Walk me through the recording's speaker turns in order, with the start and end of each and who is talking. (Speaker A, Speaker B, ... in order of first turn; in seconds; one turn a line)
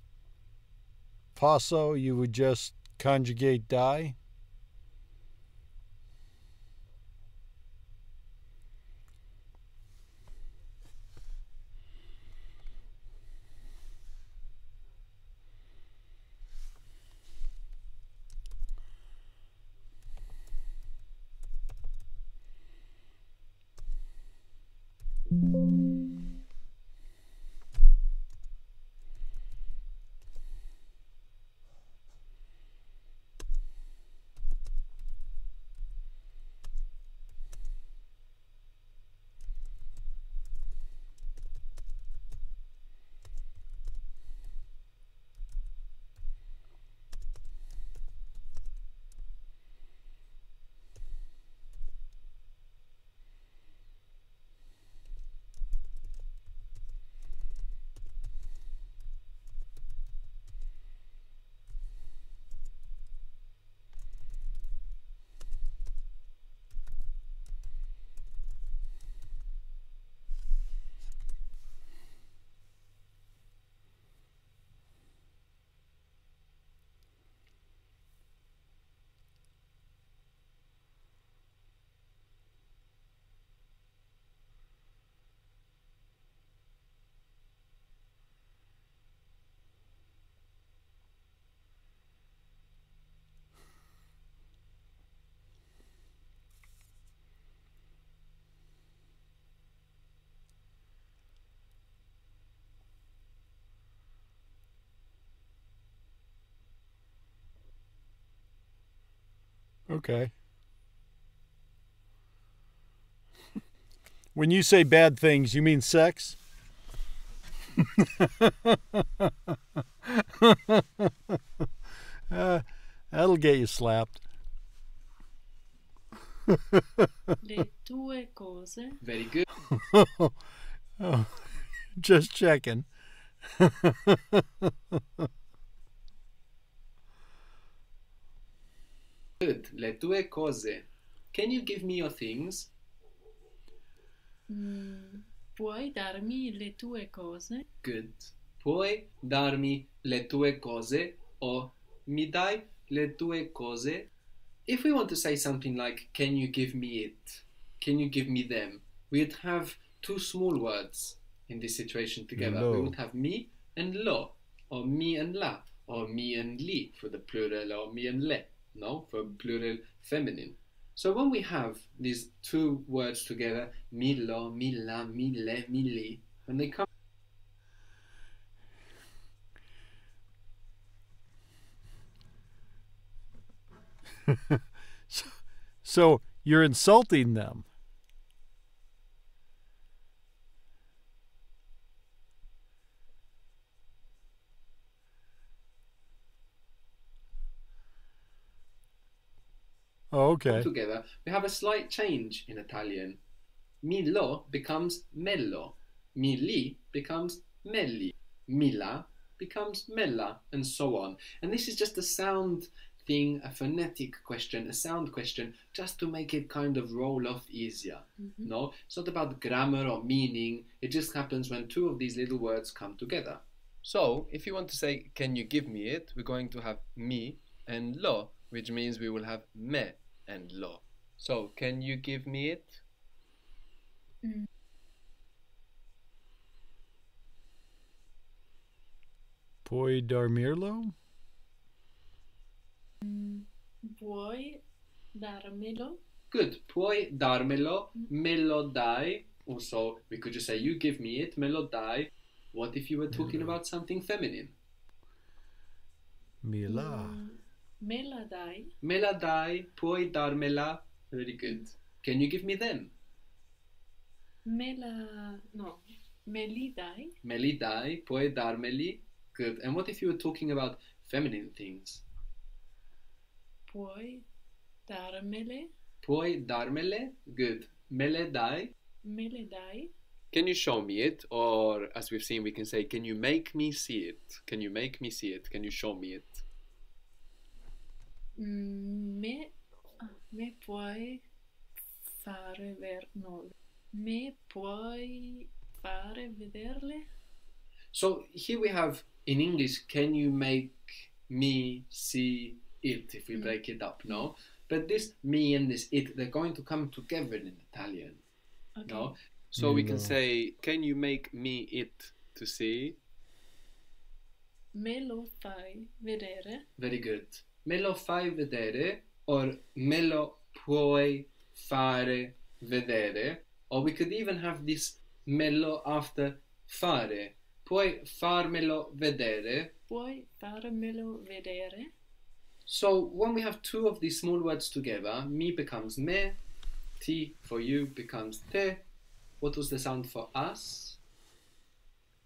Speaker A: 1.4-4.2
Speaker A: 109.9-110.3
Speaker A: 114.3-116.4
Speaker A: 117.8-119.3
Speaker A: 120.1-121.1
Speaker A: 122.3-124.2
Speaker A: 126.5-127.1
Speaker B: 127.4-129.0
Speaker C: 129.0-129.5
Speaker A: 129.7-130.3
Speaker A: 131.0-132.8
Speaker A: 133.6-135.2
Speaker C: 139.4-142.7
Speaker B: 144.5-147.6
Speaker C: 147.8-154.1
Speaker C: 154.7-176.8
Speaker A: 162.3-162.9
Speaker A: 184.3-187.7
Speaker A: 200.1-200.7
Speaker C: 200.5-203.2
Speaker C: 203.8-223.4
Speaker B: 218.2-218.5
Speaker D: 223.8-232.8
Speaker A: 239.6-240.9
Speaker B: 243.0-244.6
Speaker B: 245.2-246.0
Speaker C: 246.3-254.5
Speaker A: 253.1-253.5
Speaker A: 256.4-257.2
Speaker B: 256.7-258.7
Speaker C: 258.8-262.9
Speaker B: 264.4-267.1
Speaker C: 267.2-272.0
Speaker B: 273.7-274.2
Speaker B: 274.9-275.7
Speaker C: 276.0-278.7
Speaker B: 279.0-279.9
Speaker D: 280.3-286.4
Speaker B: 288.4-291.2
Speaker B: 292.1-297.1
Speaker C: 297.9-308.2
Speaker B: 308.8-309.1
Speaker C: 308.9-310.0
Speaker A: 309.6-310.1
Speaker D: 309.6-313.0
Speaker B: 314.7-316.6
Speaker C: 316.8-329.7
Speaker B: 329.9-331.9
Speaker C: 332.7-336.4
Speaker C: 337.0-338.8
Speaker C: 339.4-341.0